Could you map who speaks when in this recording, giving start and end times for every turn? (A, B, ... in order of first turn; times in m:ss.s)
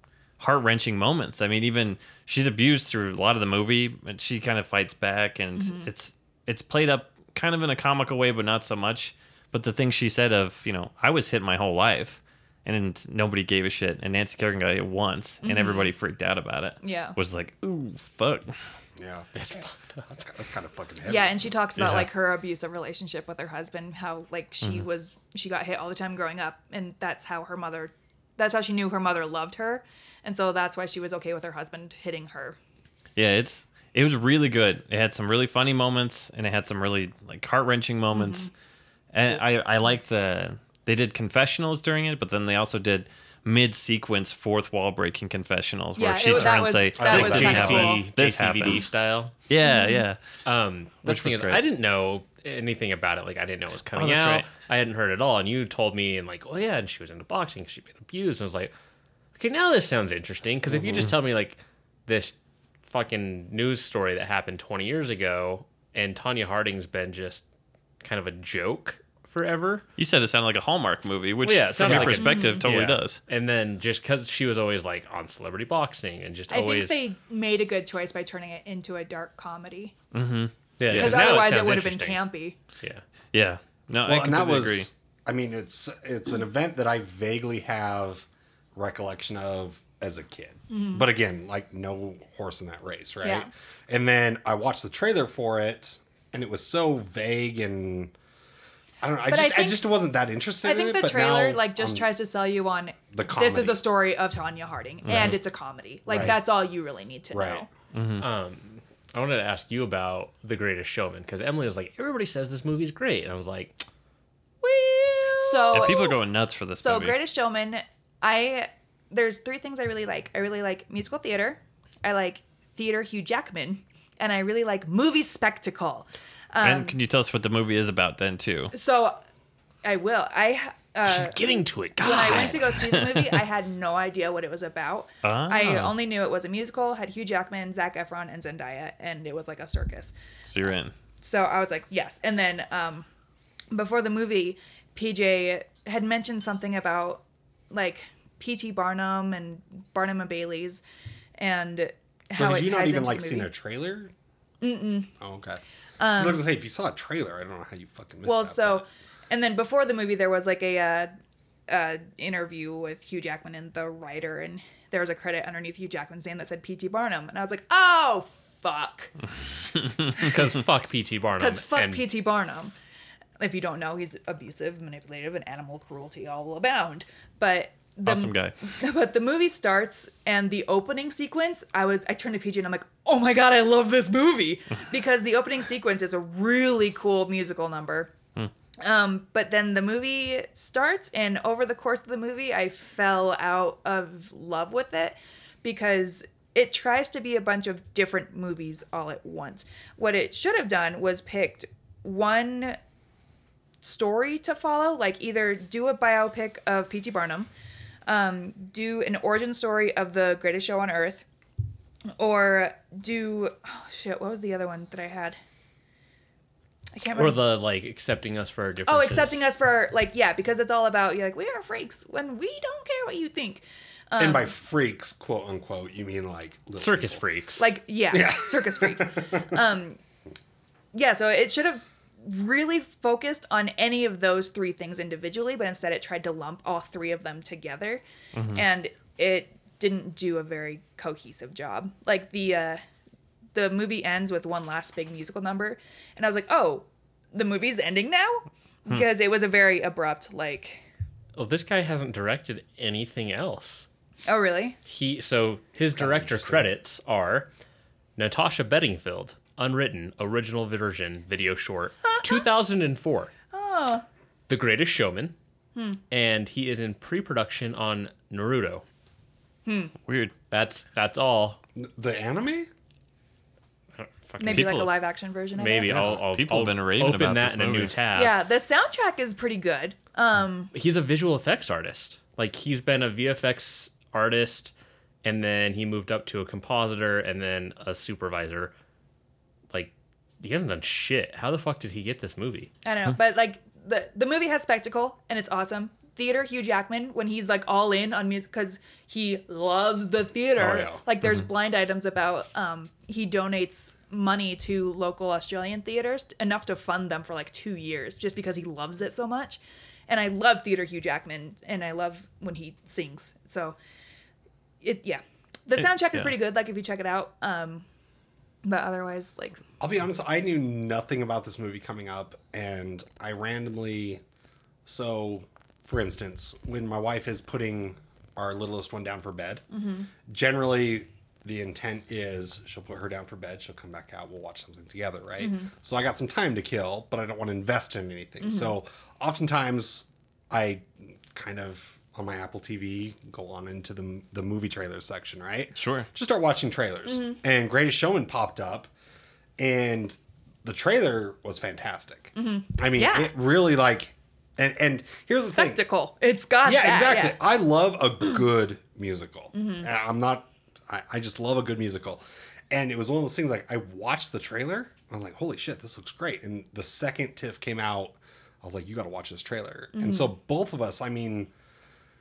0:00.4-0:18.5 A
0:05.6-0:05.9 B
0:15.4-0:15.9 B
0:16.8-0:17.2 B
0:19.0-0:19.3 C
0:19.4-0:20.1 D
0:20.1-0:21.5 C
0:21.0-0:32.6 B
0:21.8-0:22.1 A
0:33.2-0:38.5 A
0:38.1-0:38.5 B
0:39.1-0:48.9 A
0:46.0-0:48.0 B
0:46.9-0:47.9 C
0:47.1-0:49.3 D
0:49.5-0:50.2 A
0:49.6-0:50.0 B
0:50.4-0:58.7 D
0:51.0-0:51.6 A
0:53.9-0:54.5 A
0:59.4-1:07.4 D
1:00.7-1:01.1 C
1:08.0-1:09.9 D
1:10.0-1:13.2 A
1:11.4-1:17.0 D
1:12.2-1:12.6 B
1:16.5-1:19.9 B
1:20.1-1:21.6 A
1:20.8-1:22.2 D
1:20.9-1:22.6 B
1:23.3-1:24.9 A
1:24.1-1:38.1 C
1:30.7-1:31.0 B
1:33.2-1:33.5 B
1:39.0-1:42.1 C
1:39.3-1:39.9 B
1:40.6-1:47.7 B
1:43.1-1:43.8 C
1:45.1-1:45.4 C
1:46.1-1:46.4 C
1:47.3-1:47.7 C
1:47.9-1:48.3 A
1:48.2-1:53.8 D
1:54.6-1:56.0 D
1:55.3-1:56.2 B
1:55.7-1:57.2 A
1:56.8-2:07.0 B
2:06.6-2:08.7 A
2:08.7-2:09.2 B
2:09.8-2:20.1 B
2:11.1-2:12.7 D
2:12.2-2:13.3 A
2:15.2-2:15.9 A
2:20.5-2:20.9 A
2:21.2-2:23.1 B
2:23.7-2:30.8 B
2:31.4-2:33.5 B
2:32.3-2:34.1 C
2:34.6-2:35.1 B
2:35.2-2:35.6 C
2:36.0-2:36.4 B
2:36.2-2:38.8 C
2:38.2-2:41.1 B
2:41.7-2:49.1 B
2:49.8-2:50.2 A
2:50.2-2:52.0 D
2:51.4-2:52.7 B
2:53.4-3:08.1 B
2:58.0-2:58.6 A
3:08.8-3:22.8 B
3:23.8-3:27.5 B
3:28.1-3:31.2 B
3:32.2-3:35.4 B
3:36.9-3:37.4 B
3:37.2-3:39.4 D
3:38.9-3:44.5 B
3:44.2-3:47.2 C
3:46.8-3:47.7 D
3:47.6-3:50.0 B
3:48.1-3:49.6 C
3:50.9-3:58.0 B
3:58.3-3:58.6 A
3:58.5-4:02.8 B
4:03.6-4:10.8 B
4:11.4-4:13.9 D
4:14.3-4:14.8 B
4:14.9-4:17.5 D
4:16.0-4:16.8 C
4:18.2-4:23.3 D
4:23.5-4:24.0 B
4:24.5-4:25.4 D
4:25.8-4:26.0 B
4:26.1-4:28.8 D
4:29.7-4:29.9 B
4:30.1-4:30.3 A
4:30.5-4:31.6 D
4:31.8-4:32.7 C
4:34.0-4:34.9 D
4:34.4-4:36.0 B
4:34.4-4:34.8 A
4:35.6-4:38.4 D
4:35.9-4:36.2 C
4:35.9-4:38.0 A
4:38.1-4:40.7 B
4:40.7-4:44.7 D
4:45.2-4:48.7 D
4:49.7-4:52.7 D
4:52.8-5:13.8 B
5:00.6-5:01.0 C
5:14.8-5:17.8 B
5:15.8-5:16.3 A
5:18.6-5:19.6 B
5:19.8-5:24.2 C
5:24.9-5:29.6 C
5:29.7-5:30.1 B
5:30.2-5:48.9 C
5:35.4-5:35.7 B
5:38.4-5:38.8 B
5:45.8-5:46.1 A
5:47.1-5:47.4 B
5:49.6-5:55.8 C
5:52.4-5:53.3 B
5:55.6-5:57.4 B
5:56.6-6:11.5 C
5:59.5-5:59.9 B
6:09.9-6:10.3 B